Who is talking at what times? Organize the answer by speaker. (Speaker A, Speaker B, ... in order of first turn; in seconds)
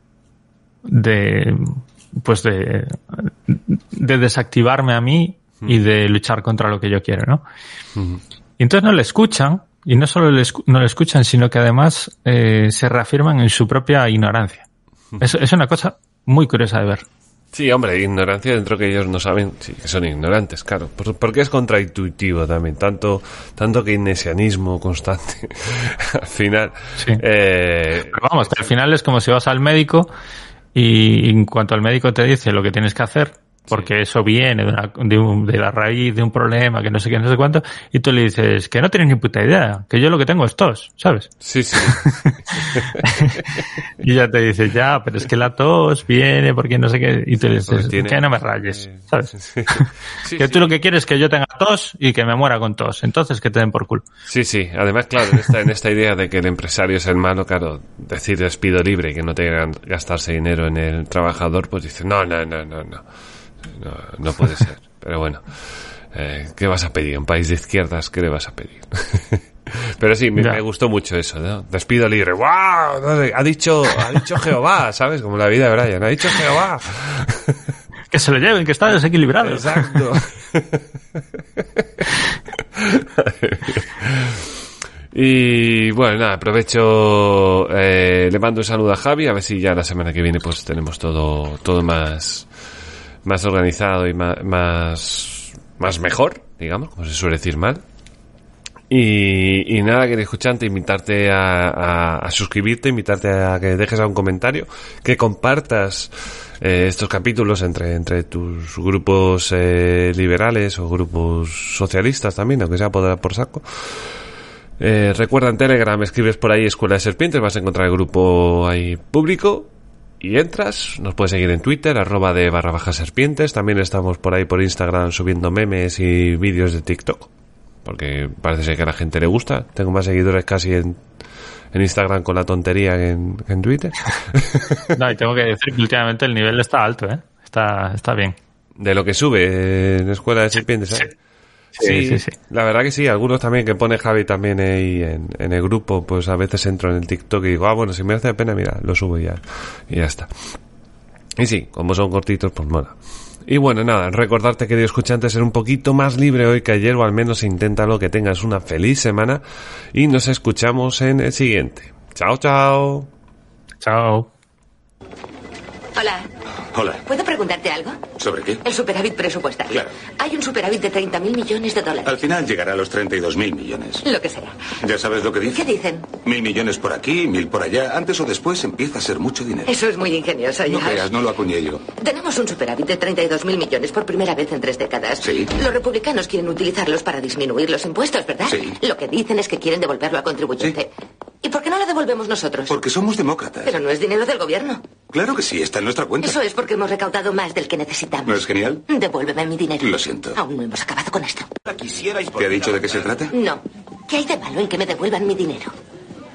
Speaker A: 0.8-7.4, 8.6-14.6, 15.2-17.0, 28.1-30.1, 30.7-41.3, 41.9-43.5, 44.0-54.0, 78.1-80.0, 134.9-138.4, 141.8-142.3, 163.8-164.3
Speaker B: 17.5-28.7, 41.4-43.5, 47.5-50.7, 54.3-63.0, 63.6-77.6, 79.4-80.8, 81.8-82.0, 82.8-84.5, 85.1-92.5, 93.2-97.8, 98.9-114.1, 114.8-127.3, 127.8-131.0, 131.7-134.9, 138.8-141.1, 141.8-150.6, 151.4-159.4, 159.9-163.1
Speaker C: 165.9-166.3, 167.0-168.0, 168.6-172.2, 174.0-174.6, 175.4-176.1, 179.7-181.1, 182.0-190.9, 191.4-192.8, 193.6-194.9, 196.2-201.5, 203.3-205.7
Speaker D: 166.7-167.0, 168.2-168.6, 169.7-170.0, 172.0-174.0, 174.8-179.7, 180.7-181.8, 185.2-185.5, 188.5-188.8, 192.7-193.8, 195.1-196.4, 198.2-198.8, 199.8-200.4, 201.7-203.3